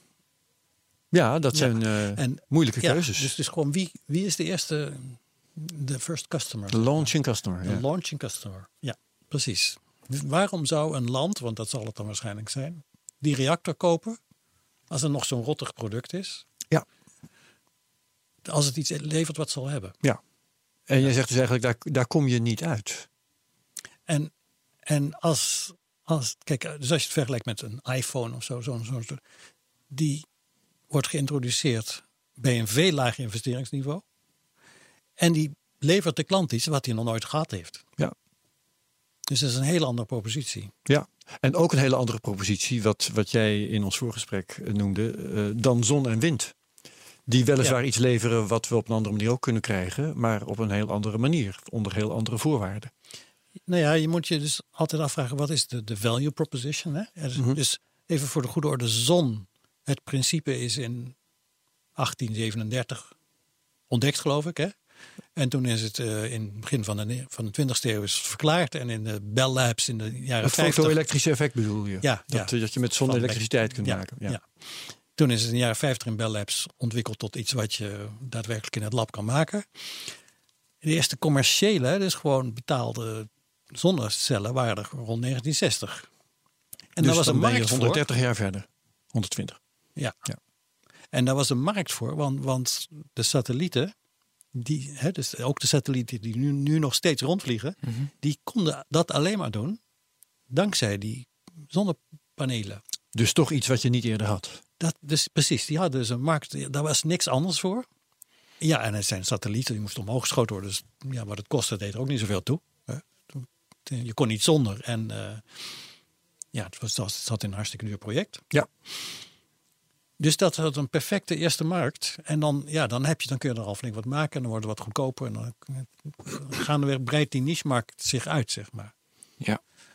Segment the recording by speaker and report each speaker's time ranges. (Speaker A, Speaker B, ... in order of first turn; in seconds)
Speaker A: 1.1-3.3, 6.7-7.8, 20.9-23.1, 40.9-46.5, 47.3-52.9, 70.4-74.4, 87.0-89.6, 103.1-104.6
Speaker B: 1.5-7.1, 7.6-14.2, 14.9-16.4, 18.4-19.9, 24.1-24.3, 24.9-29.2, 29.9-30.2, 30.9-34.0, 35.2-37.9, 39.3-40.7, 53.7-61.1, 62.0-63.1, 63.9-64.7, 65.3-71.0, 72.0-74.4, 75.1-79.7, 80.8-86.1, 87.0-88.0, 90.0-90.2, 91.1-93.9, 94.5-99.8, 100.5-102.8, 104.8-107.8, 108.6-115.4, 116.5-118.6, 120.2-128.9